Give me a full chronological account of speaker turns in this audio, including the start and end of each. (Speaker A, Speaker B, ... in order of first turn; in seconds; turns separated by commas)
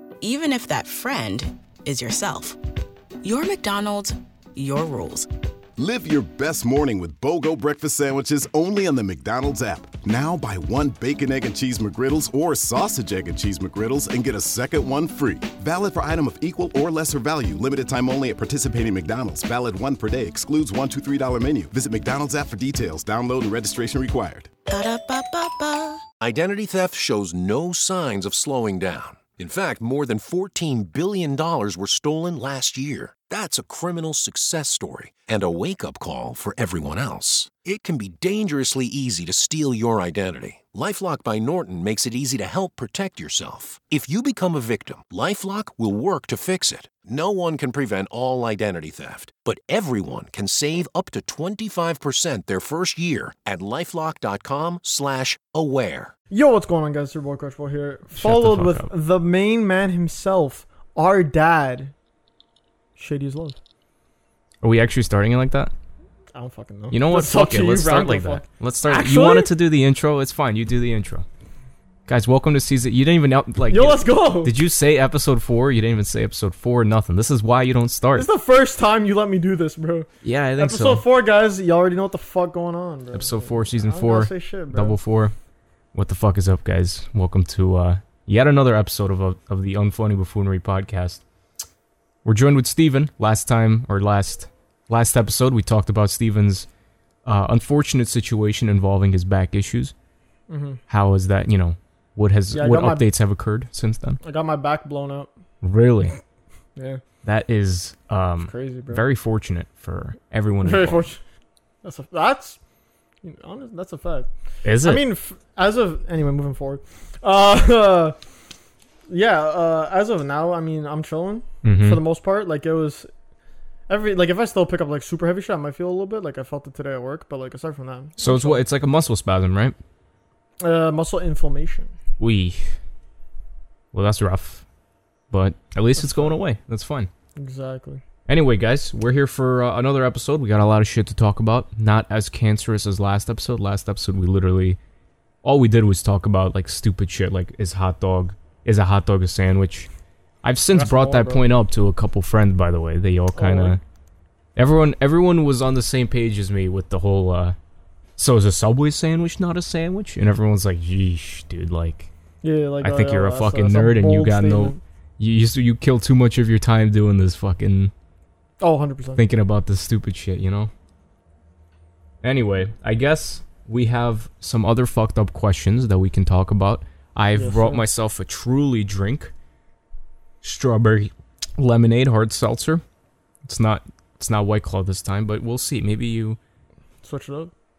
Speaker A: 0.2-2.6, Speaker A: 3.2-5.3, Speaker B: 5.8-24.5, Speaker A: 24.7-26.0, Speaker C: 26.2-56.1, Speaker D: 56.3-61.9, Speaker E: 58.1-58.9, Speaker D: 63.0-63.6, Speaker E: 64.6-65.7, Speaker D: 66.3-69.5, Speaker E: 66.9-71.3, Speaker E: 72.1-78.3, Speaker D: 73.7-74.5, Speaker D: 78.1-85.0, Speaker E: 80.2-81.0, Speaker E: 83.1-85.3, Speaker E: 85.9-91.2, Speaker E: 92.2-96.7, Speaker E: 97.2-99.9, Speaker D: 100.5-100.8, Speaker E: 100.9-104.2, Speaker D: 102.5-103.1, Speaker D: 104.2-105.3, Speaker E: 105.6-106.2, Speaker D: 106.8-107.0, Speaker E: 107.2-111.1, Speaker D: 108.5-109.0, Speaker D: 110.6-111.2, Speaker D: 111.8-112.6, Speaker D: 113.2-114.3, Speaker E: 114.6-115.0, Speaker D: 114.8-118.2, Speaker D: 119.1-123.1, Speaker E: 121.6-122.0, Speaker D: 123.9-128.6, Speaker E: 128.2-129.8, Speaker D: 130.6-131.9, Speaker E: 132.2-132.8, Speaker E: 133.9-134.7, Speaker E: 135.3-137.1, Speaker D: 136.0-136.4, Speaker D: 137.4-138.0, Speaker E: 138.3-144.8, Speaker E: 145.4-149.9, Speaker E: 150.4-153.8, Speaker D: 150.7-151.5, Speaker D: 153.4-153.8, Speaker E: 154.6-157.6, Speaker E: 158.2-162.1, Speaker D: 162.4-164.8, Speaker E: 162.8-167.9, Speaker D: 168.6-169.2, Speaker E: 169.2-170.7, Speaker E: 172.2-179.3, Speaker D: 177.4-177.8, Speaker E: 180.4-182.8, Speaker E: 183.4-186.4, Speaker D: 187.0-187.5